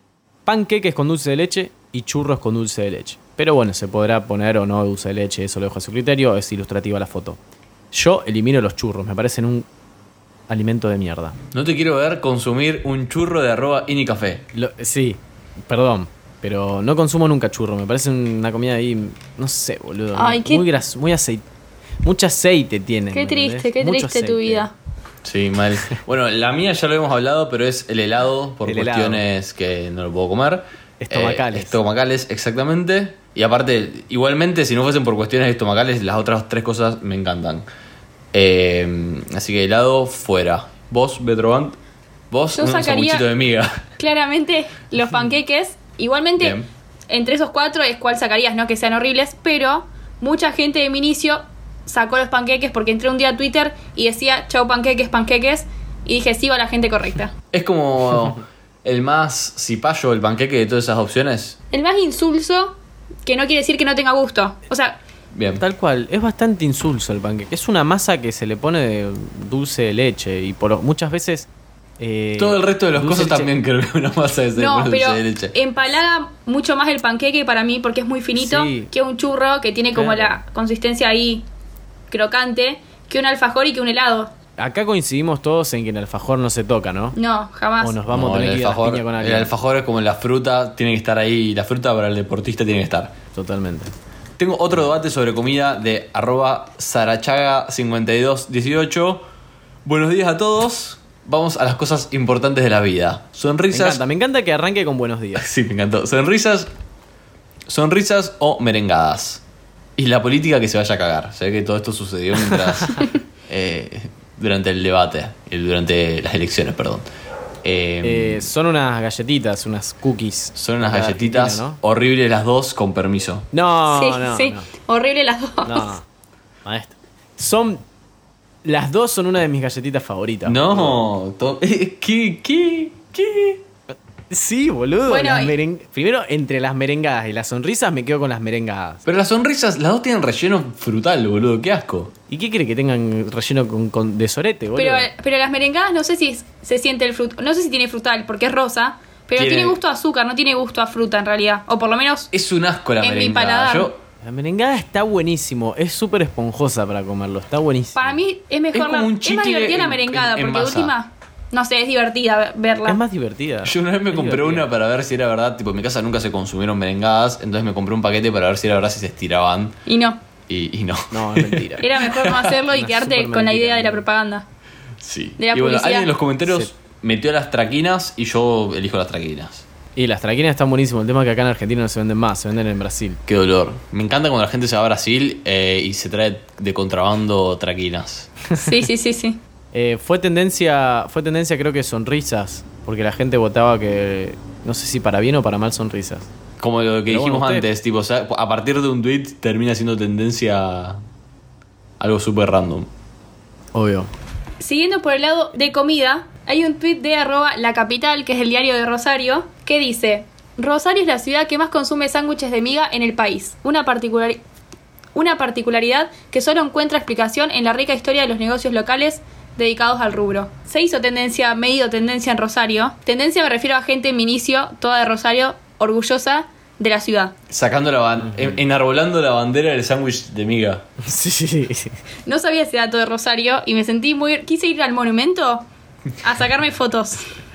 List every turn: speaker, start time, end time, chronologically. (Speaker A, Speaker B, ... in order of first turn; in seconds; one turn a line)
Speaker A: 0.5-7.4
Speaker A: 7.9-9.7
Speaker A: 10.5-11.4
Speaker B: 11.5-14.5
Speaker A: 14.5-21.4
Speaker C: 20.1-20.7
Speaker A: 22.0-24.7
Speaker C: 23.1-24.7
Speaker B: 25.2-37.7
Speaker A: 28.6-29.2
Speaker A: 31.0-31.8
Speaker B: 38.3-41.8
Speaker B: 42.3-43.8
Speaker C: 42.5-43.3
Speaker C: 44.0-46.6
Speaker B: 46.4-46.7
Speaker C: 47.1-57.4
Speaker B: 57.5-61.6
Speaker C: 61.7-65.0
Speaker B: 65.3-65.6
Speaker A: 65.6-71.5
Speaker A: 72.0-73.5
Speaker B: 72.4-75.5
Speaker C: 74.6-81.5
Speaker A: 78.4-78.9
Speaker A: 79.9-80.4
Speaker C: 82.1-84.3
Speaker A: 84.6-87.2
Speaker C: 87.2-88.0
Speaker A: 87.8-89.5
Speaker B: 88.1-93.2
Speaker A: 93.3-93.9
Speaker B: 94.4-99.3
Speaker B: 99.8-104.0
Speaker A: 103.7-105.5
Speaker B: 105.4-106.7
Speaker B: 107.7-109.4
Speaker B: 110.0-117.1
Speaker A: 112.7-113.0
Speaker B: 117.6-118.5
Speaker A: 118.0-121.8
Speaker B: 120.6-123.5
Speaker A: 123.5-124.7
Speaker C: 123.9-126.0
Speaker A: 125.6-126.0
Speaker A: 126.7-127.8
Speaker A: 128.6-131.0
Speaker B: 130.4-133.6
Speaker A: 134.3-139.0
Speaker C: 135.1-135.5
Speaker B: 139.1-142.1
Speaker A: 142.3-145.1
Speaker C: 144.8-152.3
Speaker B: 149.4-149.8
Speaker B: 152.3-154.0
Speaker C: 153.0-153.9
Speaker A: 154.2-158.2
Speaker C: 158.0-163.0
Speaker B: 158.7-160.9
Speaker A: 162.9-164.7
Speaker B: 163.6-169.8
Speaker C: 169.9-170.2
Speaker B: 170.5-172.6
Speaker A: 171.1-171.9
Speaker C: 171.8-174.5
Speaker A: 172.7-174.1
Speaker B: 175.0-179.7
Speaker C: 175.4-176.1
Speaker A: 176.4-176.7
Speaker A: 180.0-183.2
Speaker B: 183.3-188.3
Speaker A: 188.5-188.8
Speaker C: 188.6-189.4
Speaker A: 189.7-196.3
Speaker B: 196.6-201.0
Speaker A: 197.1-197.7
Speaker B: 202.0-202.9
Speaker A: 203.7-204.1
Speaker C: 204.6-214.4
Speaker C: 215.2-227.3
Speaker B: 227.5-230.9
Speaker A: 228.3-228.6
Speaker A: 231.0-232.0
Speaker C: 232.3-235.7
Speaker C: 236.2-237.3